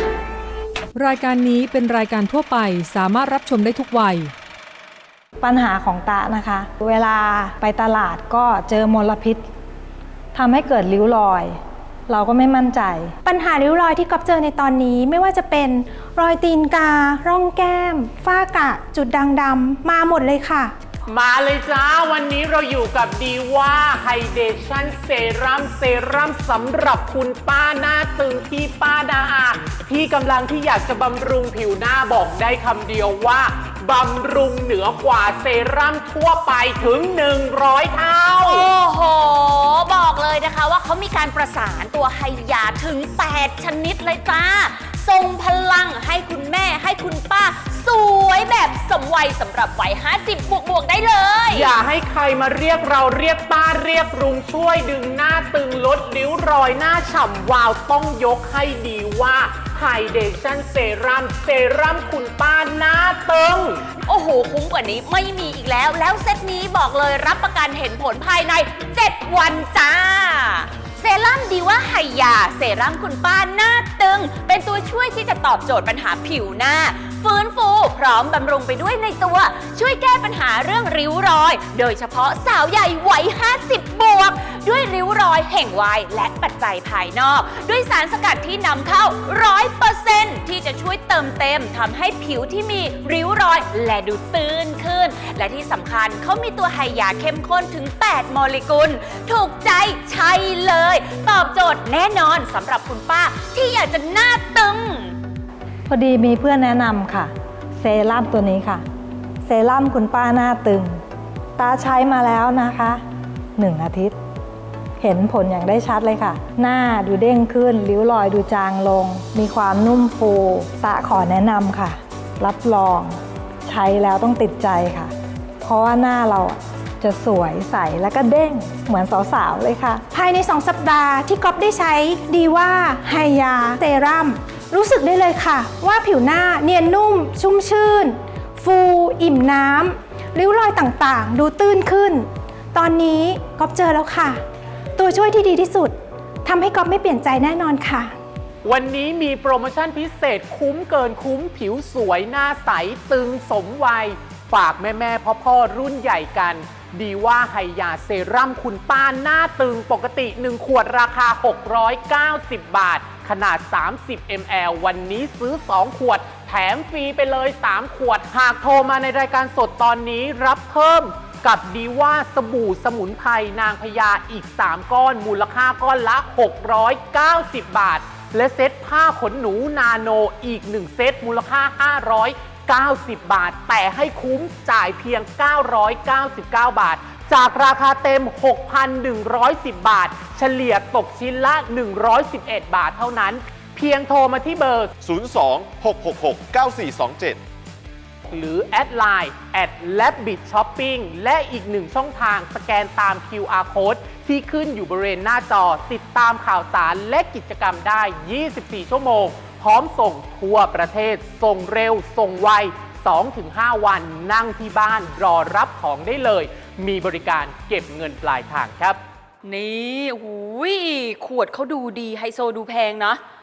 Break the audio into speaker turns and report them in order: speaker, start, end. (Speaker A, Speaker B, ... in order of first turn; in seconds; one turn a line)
Speaker A: 0.9-4.3
Speaker B: 5.4-9.5
Speaker B: 10.3-13.1
Speaker C: 13.2-20.7
Speaker D: 21.1-38.6
Speaker E: 38.4-51.7
Speaker D: 51.5-63.8
Speaker E: 64.0-105.2
Speaker B: 105.9-108.8
Speaker B: 109.4-111.0
Speaker B: 111.6-113.0
Speaker B: 113.5-114.2
Speaker B: 115.0-130.0
Speaker C: 130.1-144.4
Speaker C: 145.0-148.1
Speaker D: 148.6-194.9
Speaker F: 195.0-197.4
Speaker D: 198.3-219.0
Speaker E: 219.4-223.2